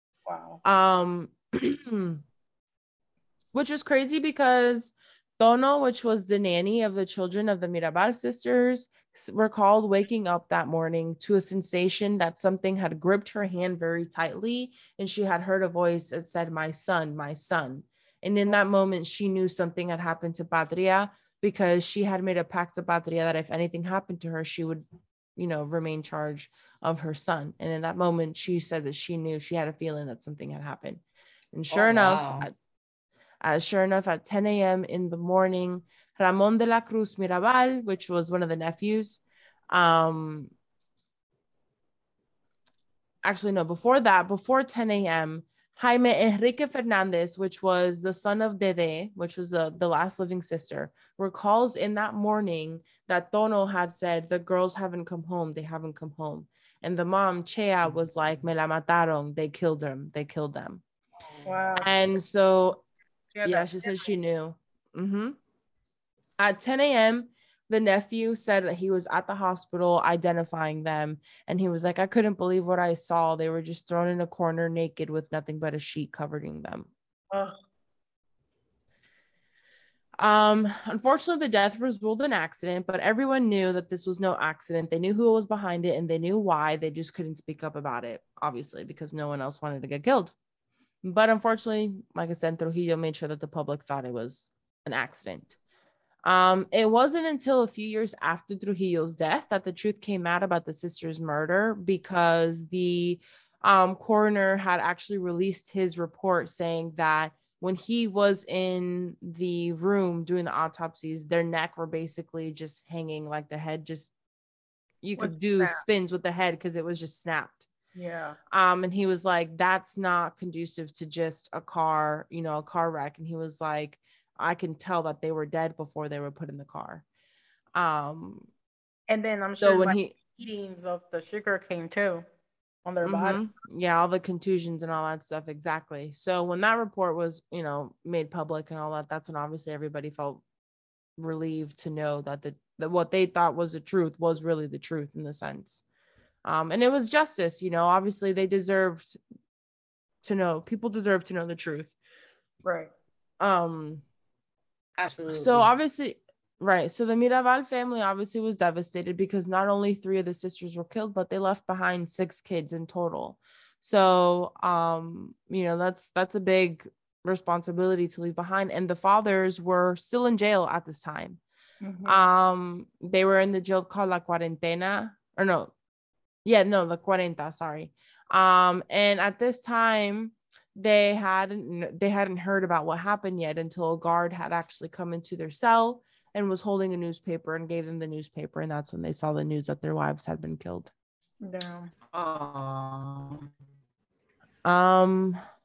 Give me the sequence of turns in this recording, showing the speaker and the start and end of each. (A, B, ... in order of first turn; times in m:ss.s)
0:00.2-0:00.6 A
0:00.6-0:02.2 B
0:03.5-0:24.8 B
0:25.4-0:31.0 B
0:31.5-0:32.5 B
0:31.7-0:32.5 C
0:33.4-0:40.5 B
0:43.2-1:00.8 B
1:01.4-1:01.9 A
1:01.8-1:02.8 B
1:03.3-1:04.1 A
1:03.4-1:05.4 B
1:06.4-1:16.9 B
1:17.3-1:17.6 A
1:20.2-1:30.3 B
1:31.0-1:35.6 B
1:36.2-1:54.1 B
1:55.0-1:57.7 B
1:55.2-1:55.8 A
1:57.9-1:58.4 A
1:58.5-2:07.0 B
2:07.7-2:08.5 B
2:09.1-2:12.2 A
2:09.6-2:10.1 B
2:12.8-2:13.4 A
2:13.0-2:20.4 B
2:21.2-2:25.8 B
2:26.4-2:29.2 B
2:30.2-2:31.9 B
2:32.6-2:32.9 A
2:33.4-2:34.0 B
2:35.0-2:35.7 C
2:35.3-2:51.4 B
2:51.8-2:52.3 A
2:52.0-2:55.7 B
2:56.4-3:10.9 B
3:11.4-3:11.9 A
3:12.1-3:13.5 C
3:14.6-3:15.4 B